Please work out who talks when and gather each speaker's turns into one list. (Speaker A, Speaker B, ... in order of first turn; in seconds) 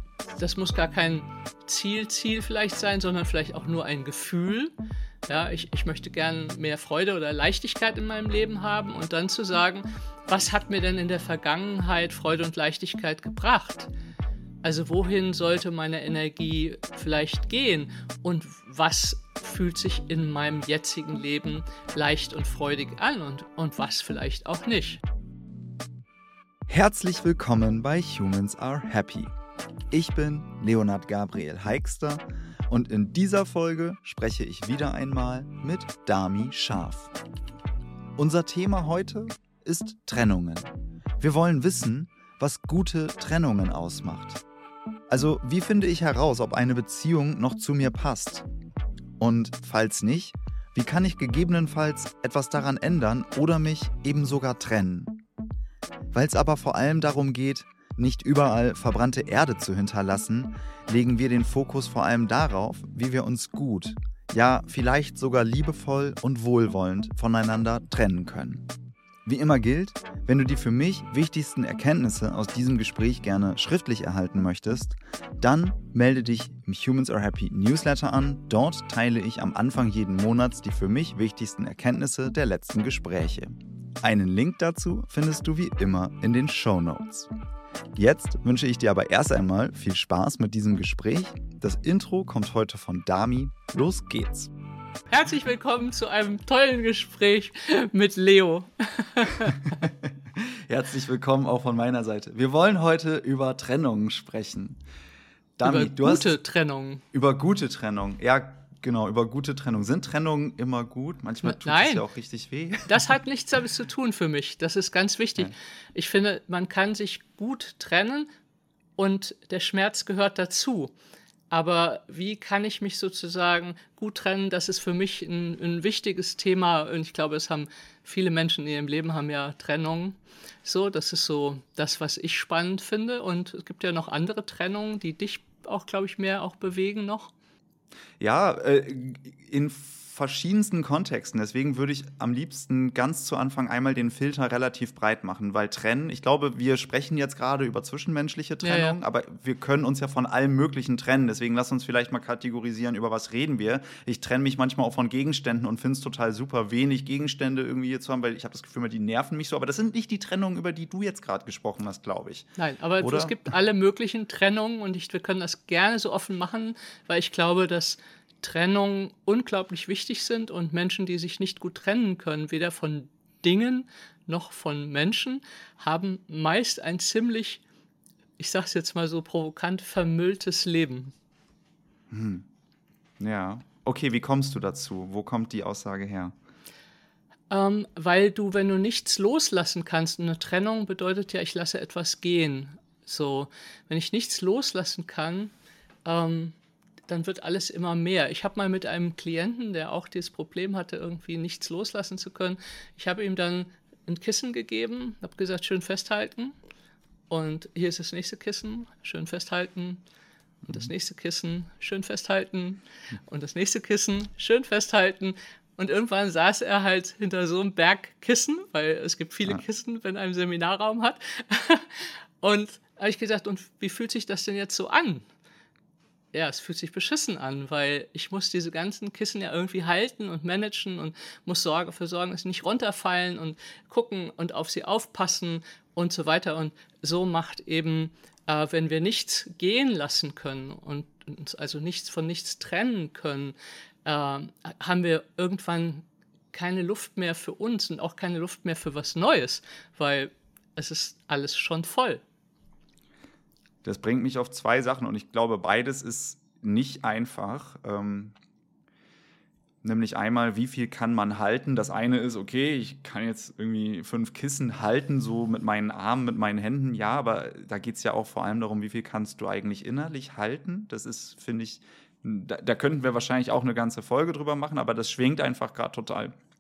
Speaker A: 0.3-4.7, 5.3-13.9, 14.6-25.0, 95.1-99.8, 105.6-107.0, 111.4-112.0, 112.9-118.3, 119.0-120.9, 121.5-137.3, 148.6-149.0, 162.6-177.6, 178.4-181.1, 187.5-195.5, 196.1-196.6, 197.1-206.6, 207.3-210.0, 210.7-225.3, 226.3-252.2
Speaker B: 26.7-29.3, 29.9-37.1, 38.2-44.4, 45.1-48.5, 49.2-55.2, 56.1-68.7, 69.2-87.3, 88.0-94.5, 99.8-104.8, 105.6-106.3, 107.1-113.0, 138.2-163.4, 182.1-182.5, 183.2-186.3, 253.8-258.4, 259.8-276.4